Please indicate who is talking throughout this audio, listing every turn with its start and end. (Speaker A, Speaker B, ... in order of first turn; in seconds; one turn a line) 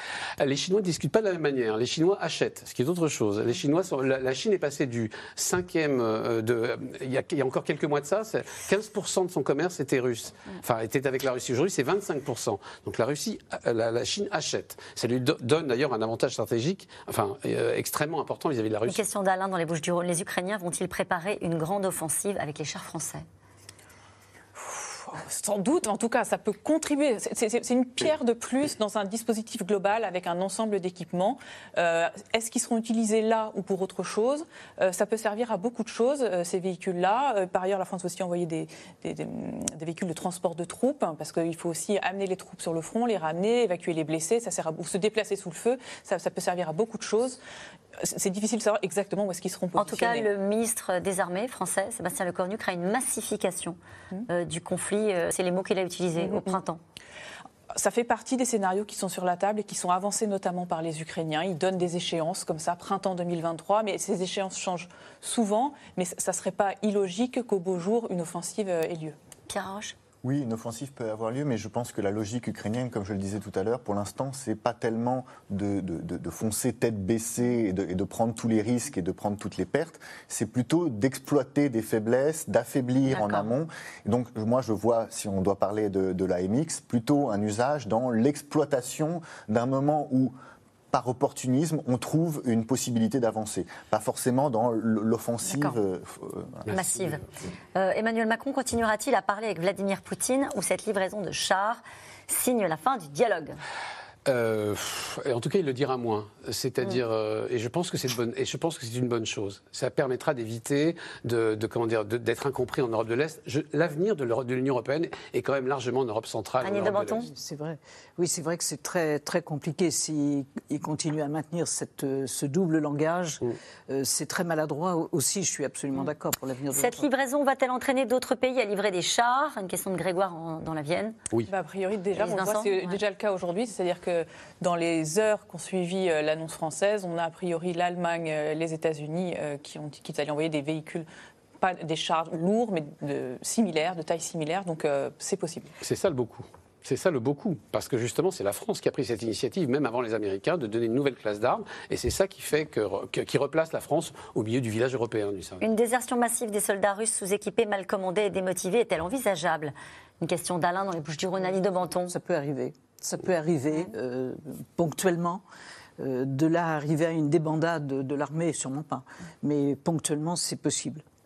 Speaker A: 0.4-19.0
Speaker B: 18.9-23.2
Speaker C: 24.6-47.4
Speaker C: 48.0-50.3
Speaker B: 49.8-53.8
Speaker B: 54.3-56.8
Speaker C: 56.2-56.6
Speaker C: 57.7-69.2
Speaker B: 69.5-70.0
Speaker D: 70.2-90.3
Speaker B: 83.1-83.5
Speaker D: 90.9-96.7
Speaker B: 95.4-95.8
Speaker B: 96.7-97.2
Speaker B: 97.7-103.6
Speaker A: 104.3-117.3
Speaker B: 116.6-117.3
Speaker E: 117.2-127.1
Speaker B: 126.7-131.2
Speaker C: 131.5-141.1
Speaker B: 132.2-133.0
Speaker C: 141.6-145.7
Speaker A: 145.8-155.6
Speaker B: 155.6-162.1
Speaker E: 162.1-165.4
Speaker E: 166.0-171.0